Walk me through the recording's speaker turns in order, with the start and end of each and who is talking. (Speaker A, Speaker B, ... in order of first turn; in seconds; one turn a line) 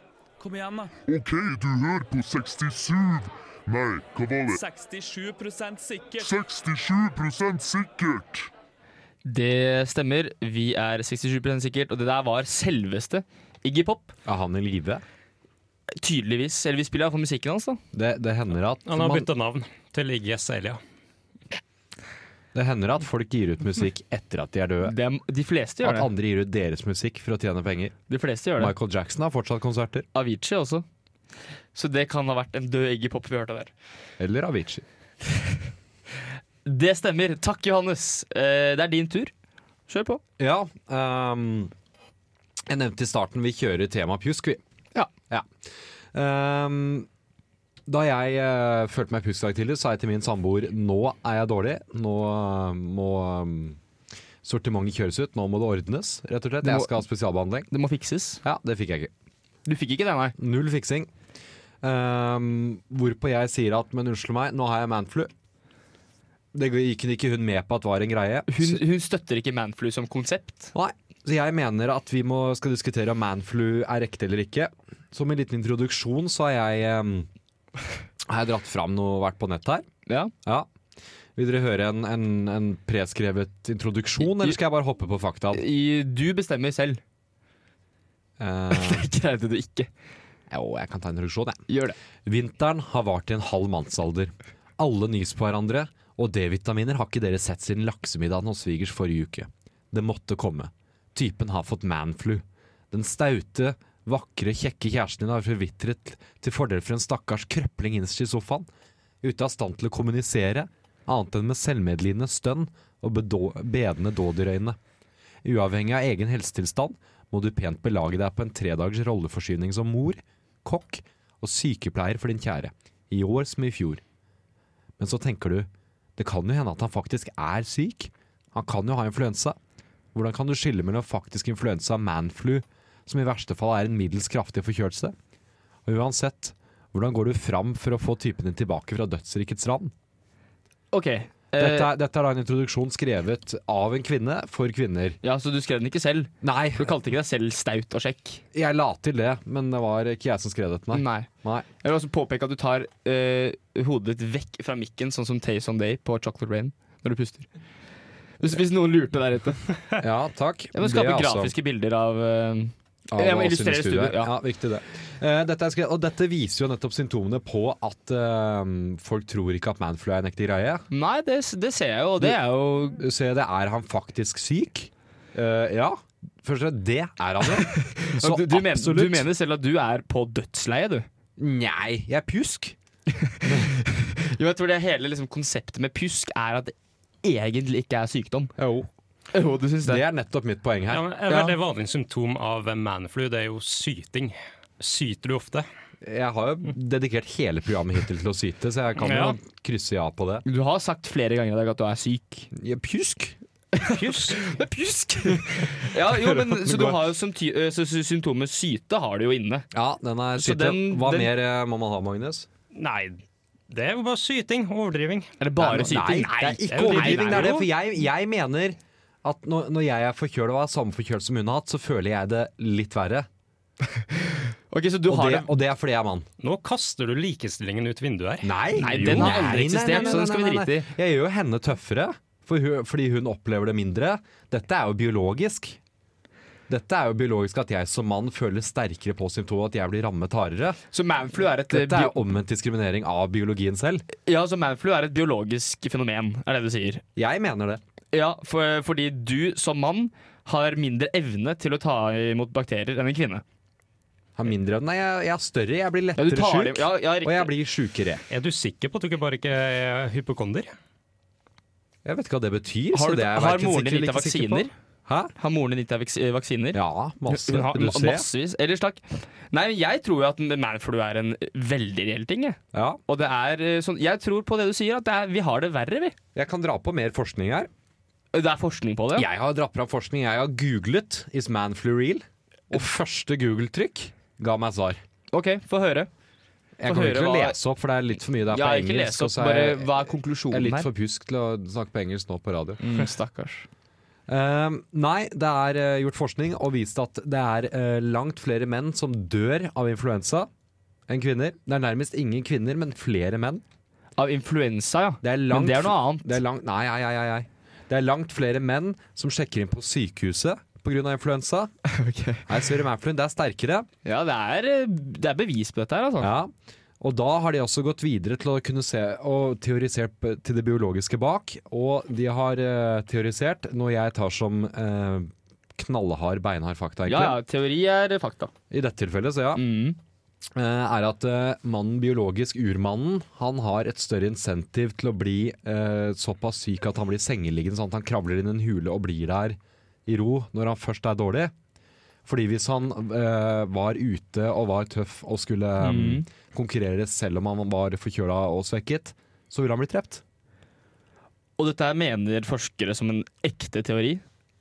Speaker A: 0.4-0.9
Speaker B: 1.1-4.6
Speaker A: 4.6-6.3
Speaker B: 6.2-8.5
Speaker C: 9.2-14.1
Speaker D: 14.2-15.0
Speaker C: 16.0-17.8
Speaker D: 17.9-19.3
Speaker E: 18.9-20.8
Speaker D: 22.5-25.0
Speaker C: 24.8-26.1
Speaker D: 25.8-28.0
Speaker C: 28.1-28.7
Speaker D: 28.6-30.1
Speaker C: 30.1-30.8
Speaker C: 31.8-33.7
Speaker D: 34.2-34.8
Speaker C: 36.6-39.3
Speaker C: 39.9-40.2
Speaker D: 40.4-41.7
Speaker D: 42.7-44.6
Speaker D: 46.1-47.1
Speaker D: 47.9-53.8
Speaker D: 54.4-57.7
Speaker C: 56.6-57.0
Speaker C: 57.7-58.4
Speaker D: 58.4-59.1
Speaker C: 59.7-60.3
Speaker D: 60.4-61.1
Speaker D: 61.8-65.3
Speaker D: 66.5-68.8
Speaker C: 68.5-70.7
Speaker D: 70.7-77.3
Speaker D: 78.2-79.8
Speaker C: 80.1-80.3
Speaker D: 81.4-85.6
Speaker C: 84.2-84.6
Speaker C: 85.5-87.0
Speaker D: 88.4-89.1
Speaker C: 88.7-89.9
Speaker D: 90.5-91.6
Speaker C: 91.7-92.0
Speaker D: 92.2-108.7
Speaker D: 109.2-114.8
Speaker D: 115.4-124.0
Speaker D: 125.0-129.6
Speaker D: 130.1-135.1
Speaker D: 135.8-139.9
Speaker C: 140.9-141.9
Speaker D: 141.6-145.2
Speaker C: 145.2-148.4
Speaker D: 146.4-146.9
Speaker D: 148.5-151.7
Speaker C: 150.9-151.3
Speaker C: 151.8-157.5
Speaker C: 158.4-159.6
Speaker D: 160.0-161.5
Speaker C: 160.7-164.3
Speaker D: 163.1-170.9
Speaker C: 170.9-173.0
Speaker D: 172.9-179.3
Speaker C: 177.5-181.1
Speaker D: 181.4-182.8
Speaker C: 183.1-188.5
Speaker D: 183.4-183.7
Speaker D: 188.6-188.9
Speaker C: 189.3-190.0
Speaker D: 189.8-191.1
Speaker E: 190.9-195.7
Speaker D: 196.0-200.4
Speaker E: 199.0-199.4
Speaker C: 200.4-202.5
Speaker D: 202.5-203.4
Speaker C: 203.8-209.7
Speaker E: 203.9-204.4
Speaker D: 205.3-207.1
Speaker D: 209.7-212.5
Speaker C: 210.3-211.3
Speaker E: 212.8-215.3
Speaker C: 215.4-217.5
Speaker D: 215.6-223.3
Speaker E: 216.7-217.7
Speaker C: 223.9-225.5
Speaker D: 225.1-226.2
Speaker E: 226.4-229.5
Speaker D: 228.4-235.8
Speaker C: 228.8-230.9
Speaker D: 236.7-240.8
Speaker C: 240.9-242.2
Speaker D: 241.7-244.1
Speaker C: 244.2-247.0
Speaker D: 247.2-247.8
Speaker C: 248.1-253.4
Speaker D: 254.4-258.2
Speaker C: 256.2-257.5
Speaker E: 258.3-260.7
Speaker D: 262.1-265.3
Speaker C: 262.9-264.7
Speaker C: 265.4-276.1
Speaker D: 266.7-268.3
Speaker D: 272.7-273.0
Speaker D: 276.3-277.7
Speaker C: 278.3-279.3
Speaker D: 279.1-285.0
Speaker C: 285.3-286.1
Speaker D: 286.8-293.1
Speaker C: 286.9-287.6
Speaker C: 288.5-290.9
Speaker C: 292.8-293.7
Speaker D: 294.3-300.5
Speaker D: 301.1-303.6
Speaker C: 304.2-306.4
Speaker D: 305.2-311.7
Speaker C: 311.9-312.5
Speaker D: 312.5-313.9
Speaker C: 314.1-316.3
Speaker D: 316.2-327.4
Speaker C: 327.1-328.5
Speaker D: 328.7-329.6
Speaker C: 329.6-330.0
Speaker D: 330.6-341.5
Speaker D: 342.2-350.2
Speaker C: 345.8-346.2
Speaker C: 351.6-354.2